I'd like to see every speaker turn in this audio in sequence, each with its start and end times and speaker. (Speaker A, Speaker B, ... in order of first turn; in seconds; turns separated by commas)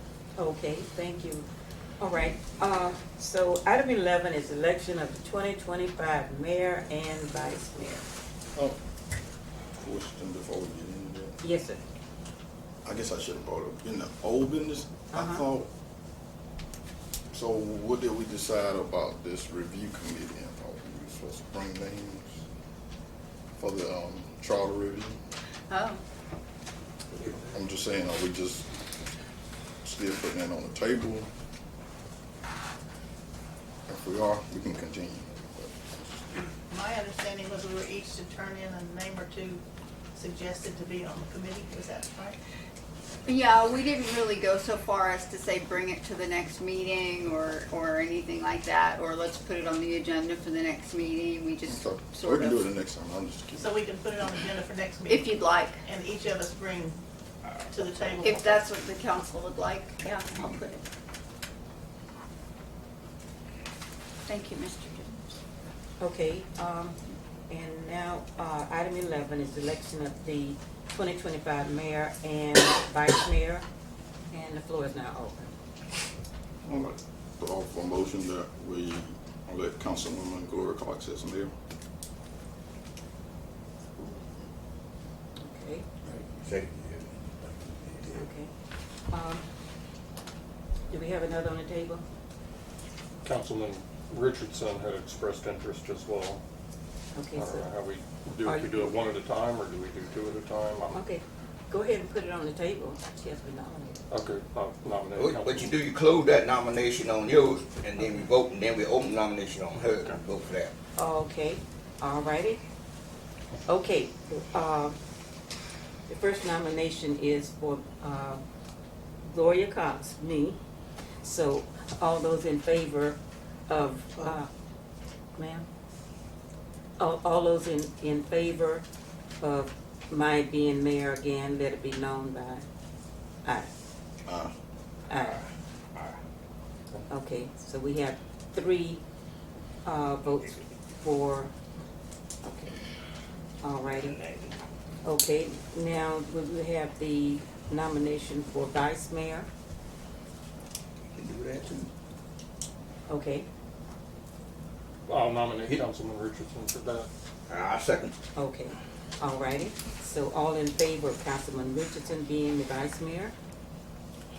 Speaker A: 0.4-1.5, Speaker A: 2.0-8.1, Speaker B: 9.8-11.4, Speaker A: 11.4-11.8, Speaker B: 12.8-15.7, Speaker A: 15.1-15.4, Speaker B: 17.3-22.4, Speaker B: 23.6-25.2, Speaker C: 25.7-26.0, Speaker B: 27.4-28.7, Speaker B: 29.8-31.3, Speaker B: 33.9-36.3, Speaker D: 36.5-39.6, Speaker D: 40.2-42.4, Speaker C: 43.3-52.7, Speaker B: 51.7-53.8, Speaker D: 53.6-55.3, Speaker C: 55.1-55.8, Speaker D: 55.9-57.0, Speaker D: 57.7-58.5, Speaker C: 58.2-60.8, Speaker C: 64.3-65.4, Speaker A: 66.0-67.0, Speaker A: 67.5-73.7, Speaker A: 74.3-75.5, Speaker B: 76.6-81.5, Speaker A: 85.4-85.9, Speaker E: 86.1-88.2, Speaker A: 88.1-88.5, Speaker A: 89.1-89.4, Speaker A: 90.9-92.0, Speaker F: 93.2-96.4, Speaker A: 97.2-97.7, Speaker F: 97.3-101.0, Speaker A: 98.4-98.9, Speaker A: 100.9-104.0, Speaker F: 104.1-105.7, Speaker E: 105.2-110.7, Speaker A: 111.0-112.6, Speaker A: 113.7-115.0, Speaker A: 116.1-118.4, Speaker A: 119.2-120.6, Speaker A: 121.2-123.2, Speaker A: 123.7-124.5, Speaker A: 125.4-125.7, Speaker A: 127.0-128.8, Speaker A: 129.4-132.6, Speaker B: 134.3-134.5, Speaker A: 135.1-135.4, Speaker A: 137.1-139.0, Speaker A: 139.8-141.5, Speaker A: 142.4-142.8, Speaker A: 143.6-144.2, Speaker E: 143.9-144.6, Speaker A: 145.1-149.5, Speaker E: 151.1-151.9, Speaker A: 153.1-153.5, Speaker F: 155.1-157.1, Speaker E: 157.5-158.1, Speaker A: 158.4-163.3